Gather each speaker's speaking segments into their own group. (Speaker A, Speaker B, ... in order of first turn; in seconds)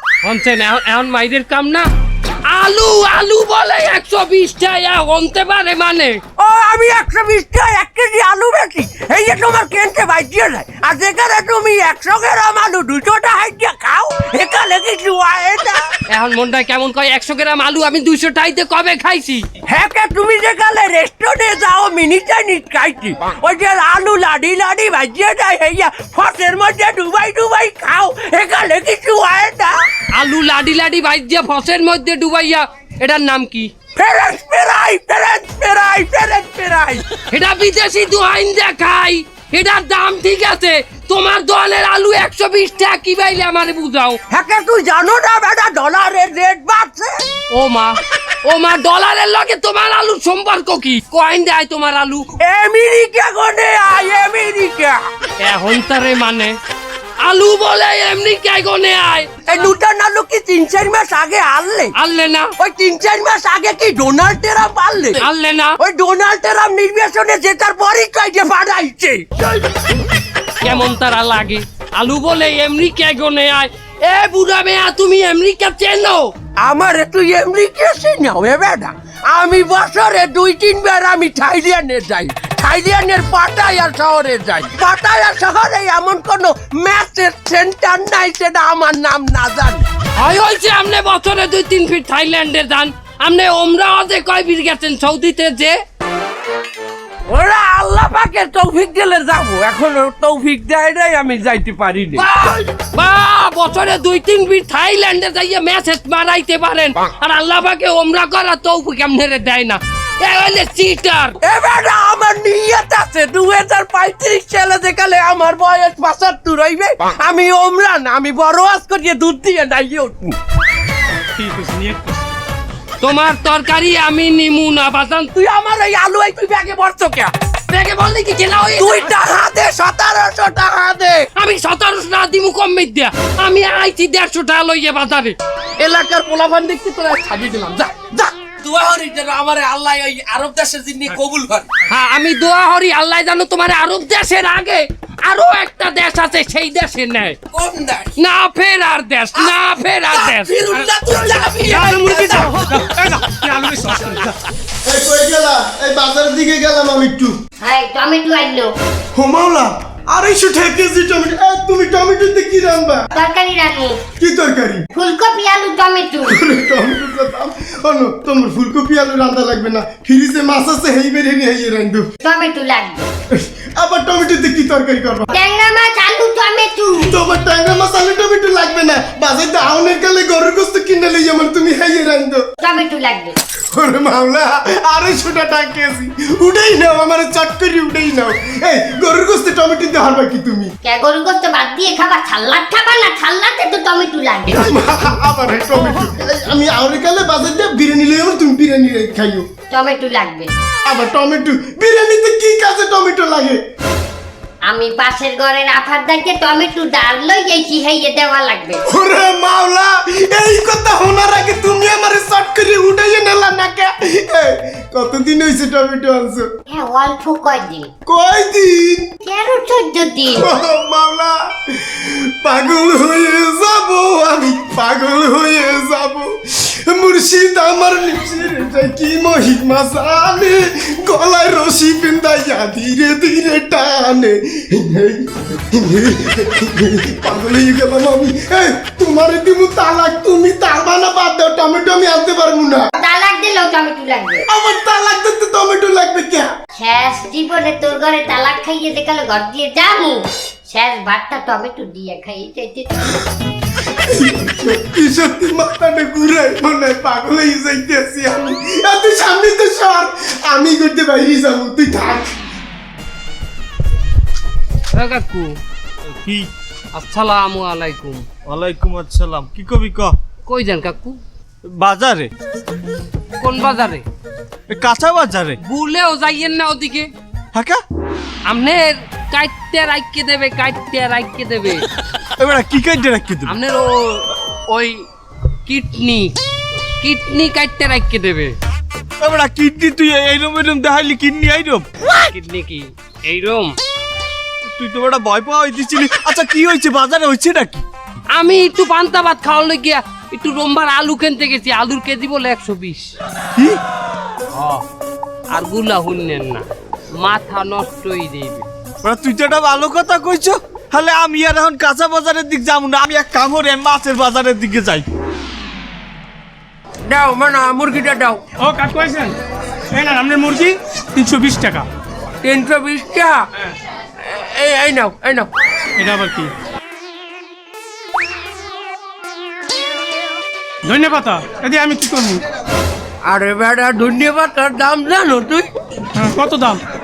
Speaker A: 0.2-1.9, 2.5-6.2, 16.1-19.4, 30.1-33.7, 37.3-44.2, 47.5-52.3, 55.4-56.5, 57.2-59.3, 62.0-62.5, 65.2-65.8, 70.6-76.3, 90.2-95.8, 102.2-111.4, 123.0-125.3, 127.7-129.1, 131.3-135.4, 141.9-147.4, 148.2-150.6, 264.9-265.5, 266.9-268.2, 270.5-271.2, 273.4-274.1, 275.6-277.1, 278.5-281.8, 283.5-285.1, 285.7-286.3, 287.0-288.6, 292.3-293.8, 298.4-303.1, 304.6-304.8, 305.5-306.7, 307.2-308.7
Speaker B: 6.4-15.8, 19.7-29.8, 34.0-37.0, 44.3-47.1, 52.4-55.0, 59.5-61.9, 62.6-65.2, 65.8-69.2, 76.6-89.8, 97.3-102.3, 111.4-120.3, 125.3-127.3, 128.8-131.3, 135.8-141.7, 147.5-148.1, 149.4-152.5, 317.1-318.4, 322.4-323.4, 324.2-325.5, 333.3-335.7
Speaker C: 121.4-122.3, 151.7-154.3, 318.6-319.3, 319.9-321.9, 326.0-326.5, 330.9-332.4, 336.2-336.8
Speaker D: 154.8-157.3, 159.2-163.1, 164.2-164.9, 166.3-172.1, 173.3-175.3, 177.0-182.4, 183.7-190.7, 194.5-199.5, 200.9-203.6, 208.9-216.5, 218.1-219.1, 220.3-242.9, 244.5-246.5, 254.1-262.3
Speaker E: 157.6-158.7, 163.1-164.0, 164.9-166.4, 172.2-173.1, 175.3-177.1, 182.6-183.3, 190.8-194.8, 199.7-200.5, 204.7-208.8, 216.7-217.9, 219.2-220.5, 243.0-244.4, 246.8-252.9
Speaker F: 266.1-266.5, 268.5-270.2, 271.7-272.3, 274.7-275.6, 277.6-277.8, 282.4-283.6, 289.2-291.9, 294.7-297.9, 309.0-315.1